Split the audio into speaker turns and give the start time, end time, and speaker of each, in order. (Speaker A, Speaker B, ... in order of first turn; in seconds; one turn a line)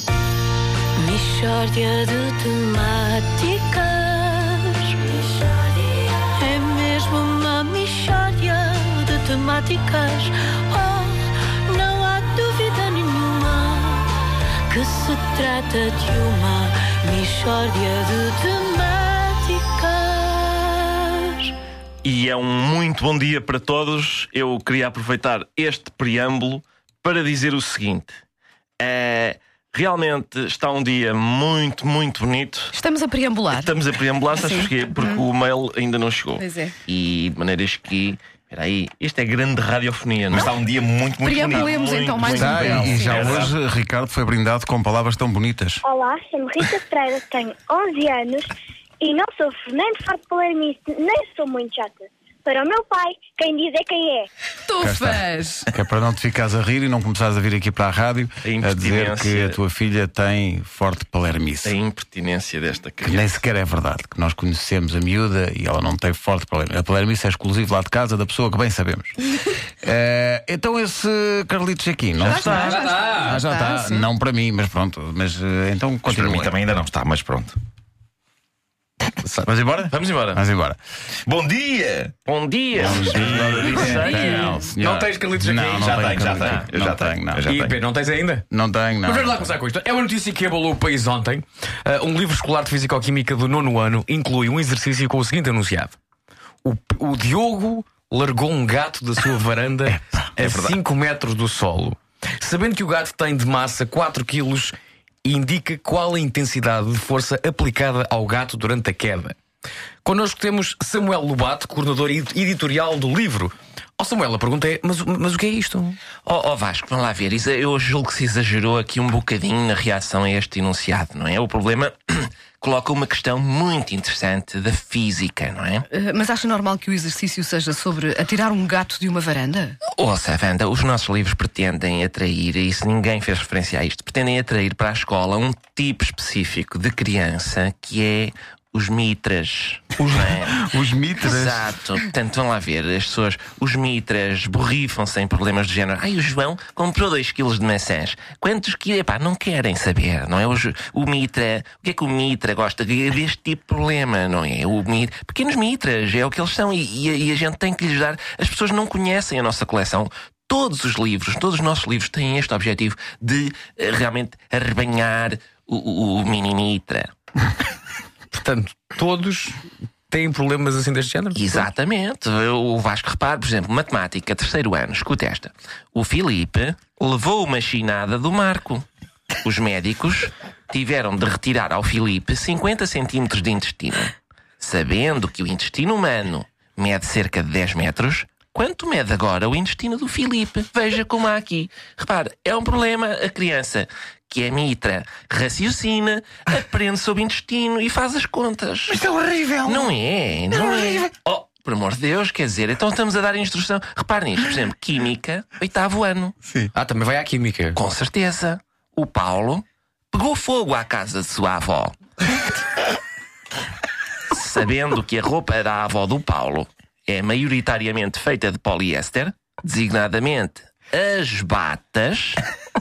Speaker A: 1.0-21.5
Speaker B: 22.0-28.1
Speaker B: 28.8-32.7
Speaker C: 32.7-33.7
Speaker B: 33.5-40.6
Speaker C: 34.3-35.2
Speaker C: 36.4-36.7
Speaker D: 40.3-41.8
Speaker C: 41.2-43.4
Speaker B: 41.3-43.5
Speaker E: 42.3-45.8
Speaker F: 45.8-54.3
Speaker E: 54.8-61.7
Speaker C: 54.8-55.2
Speaker B: 58.4-59.6
Speaker B: 61.6-63.2
Speaker E: 63.0-69.1
Speaker E: 69.8-76.5
Speaker C: 72.2-74.1
Speaker G: 72.3-73.4
Speaker D: 76.0-77.6
Speaker G: 79.2-80.4
Speaker E: 79.4-80.8
Speaker D: 81.2-82.1
Speaker B: 82.2-84.6
Speaker E: 82.8-87.5
Speaker D: 83.1-84.2
Speaker G: 84.2-86.3
Speaker D: 85.8-87.8
Speaker G: 87.5-88.5
Speaker E: 88.5-89.5
Speaker G: 89.0-96.0
Speaker G: 96.6-109.4
Speaker D: 100.4-100.8
Speaker G: 110.0-116.0
Speaker B: 116.2-125.8
Speaker C: 125.9-129.8
Speaker B: 129.9-140.6
Speaker E: 140.0-141.7
Speaker B: 141.2-167.1
Speaker G: 168.3-171.7
Speaker B: 171.3-178.8
Speaker B: 179.4-199.0
Speaker E: 198.9-199.8
Speaker B: 199.6-206.3
Speaker E: 200.7-201.0
Speaker E: 206.4-206.7
Speaker G: 206.7-207.8
Speaker B: 207.7-211.9
Speaker B: 214.3-222.4